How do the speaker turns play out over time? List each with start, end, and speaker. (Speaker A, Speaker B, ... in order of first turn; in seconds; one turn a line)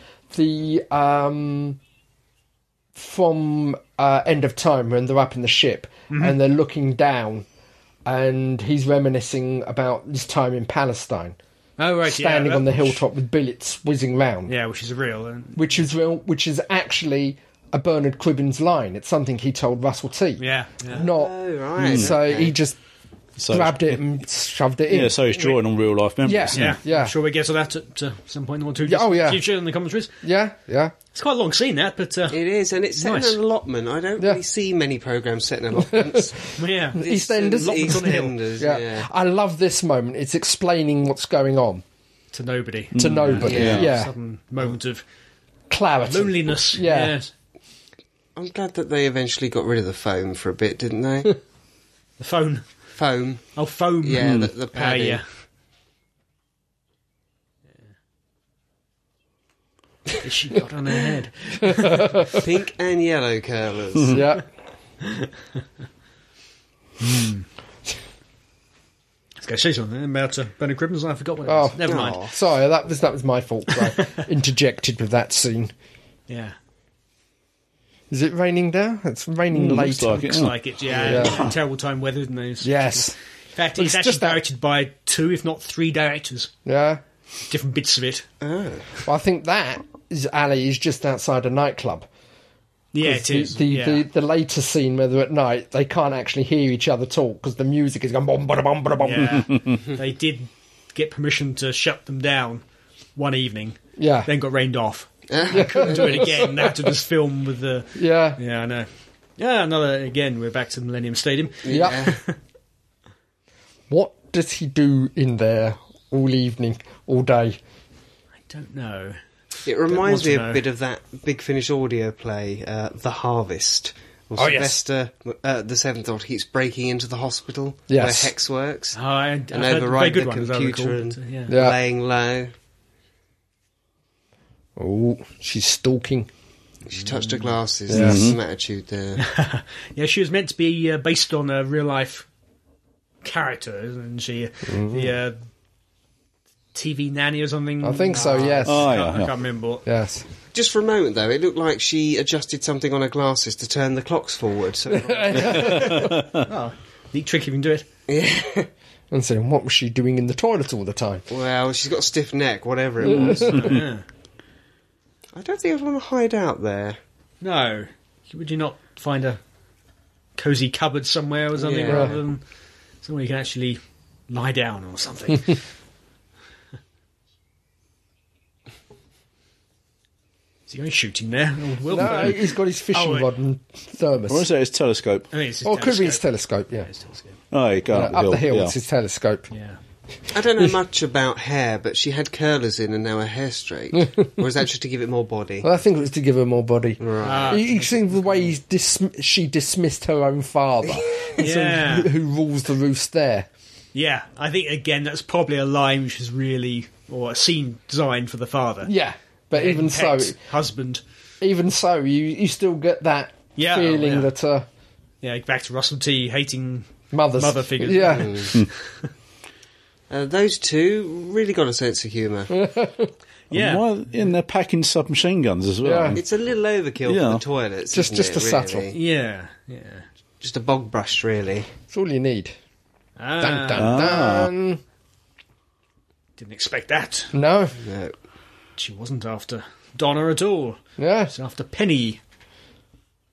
Speaker A: 0.3-1.8
Speaker A: 2.9-7.5
Speaker B: 6.1-6.4
Speaker A: 8.1-11.4
Speaker B: 11.8-13.0
Speaker A: 12.0-14.5
Speaker B: 14.5-15.6
Speaker A: 15.6-22.8
Speaker B: 20.4-21.0
Speaker C: 20.9-22.5
Speaker D: 21.8-22.1
Speaker D: 23.4-24.0
Speaker A: 23.5-25.2
Speaker D: 24.9-26.7
Speaker A: 26.2-27.1
Speaker B: 26.5-30.1
Speaker A: 28.8-29.4
Speaker A: 30.2-30.9
Speaker B: 31.1-32.4
Speaker C: 32.3-39.1
Speaker B: 33.0-33.4
Speaker A: 35.7-41.8
Speaker B: 36.5-38.4
Speaker B: 42.3-45.0
Speaker D: 42.9-43.9
Speaker A: 43.0-44.1
Speaker C: 43.4-43.9
Speaker A: 45.7-47.2
Speaker B: 46.1-47.3
Speaker C: 48.4-51.4
Speaker B: 52.2-52.6
Speaker C: 53.0-53.5
Speaker B: 53.5-55.2
Speaker C: 54.0-55.2
Speaker D: 54.2-54.5
Speaker B: 60.2-62.3
Speaker A: 61.6-62.5
Speaker C: 62.3-64.2
Speaker A: 64.1-64.4
Speaker B: 65.0-65.3
Speaker B: 67.0-67.5
Speaker B: 69.4-72.2
Speaker A: 71.5-75.7
Speaker C: 71.8-72.3
Speaker B: 76.3-76.5
Speaker A: 78.1-80.3
Speaker D: 79.5-80.6
Speaker B: 80.1-86.5
Speaker C: 80.9-81.3
Speaker A: 81.0-81.4
Speaker A: 82.6-83.1
Speaker A: 83.8-84.4
Speaker A: 86.6-87.0
Speaker B: 87.5-88.3
Speaker C: 88.4-88.9
Speaker A: 89.0-92.1
Speaker B: 92.9-94.0
Speaker A: 93.0-99.5
Speaker B: 99.0-102.6
Speaker B: 103.2-112.3
Speaker A: 104.0-104.3
Speaker C: 105.3-106.3
Speaker A: 105.5-106.7
Speaker A: 107.9-108.4
Speaker C: 111.6-112.2
Speaker A: 111.7-112.0
Speaker A: 113.9-117.6
Speaker B: 118.5-119.2
Speaker C: 119.7-129.0
Speaker B: 119.9-120.6
Speaker A: 124.4-124.8
Speaker A: 127.9-128.3
Speaker B: 128.9-131.5
Speaker C: 129.5-132.5
Speaker A: 131.5-131.8
Speaker A: 134.8-136.3
Speaker C: 136.9-139.2
Speaker B: 137.0-137.5
Speaker A: 137.9-138.3
Speaker D: 137.9-138.4
Speaker B: 139.2-142.3
Speaker B: 143.2-145.4
Speaker A: 144.7-145.1
Speaker B: 146.7-149.8
Speaker A: 147.8-148.9
Speaker C: 148.1-148.7
Speaker D: 148.7-149.3
Speaker A: 149.8-150.2
Speaker C: 150.5-155.8
Speaker A: 154.9-156.2
Speaker B: 155.4-157.8
Speaker D: 155.5-156.4
Speaker C: 158.1-158.7
Speaker A: 159.1-161.2
Speaker C: 161.3-163.8
Speaker A: 163.0-163.7
Speaker B: 163.4-164.0
Speaker C: 165.3-167.0
Speaker B: 167.4-169.4
Speaker B: 170.4-172.4
Speaker C: 171.6-172.2
Speaker B: 173.0-175.6
Speaker B: 180.7-183.3
Speaker A: 181.9-184.5
Speaker D: 184.3-185.3
Speaker B: 185.3-186.2
Speaker A: 185.6-186.9
Speaker B: 186.8-187.4
Speaker D: 187.5-188.7
Speaker A: 187.9-189.5
Speaker B: 189.5-189.8
Speaker C: 190.3-195.7
Speaker A: 195.6-203.5
Speaker C: 197.0-197.6
Speaker B: 197.2-198.5
Speaker B: 201.4-202.1
Speaker B: 203.9-208.9
Speaker A: 208.8-210.4
Speaker B: 209.5-211.0
Speaker A: 211.4-214.7
Speaker B: 213.6-214.3
Speaker B: 215.2-219.1
Speaker A: 217.1-218.4
Speaker C: 218.1-218.5
Speaker C: 220.1-222.6
Speaker A: 222.5-223.1
Speaker B: 223.5-223.9
Speaker D: 223.5-226.2
Speaker A: 225.8-226.2
Speaker C: 226.1-229.0
Speaker D: 227.1-227.4
Speaker A: 227.9-228.9
Speaker B: 228.9-230.1
Speaker C: 230.4-231.7
Speaker A: 231.9-232.5
Speaker B: 233.2-234.1
Speaker A: 233.4-234.8
Speaker D: 233.8-234.5
Speaker B: 236.4-237.3
Speaker A: 237.3-237.8
Speaker C: 237.8-238.1
Speaker B: 238.8-242.2
Speaker A: 241.0-241.3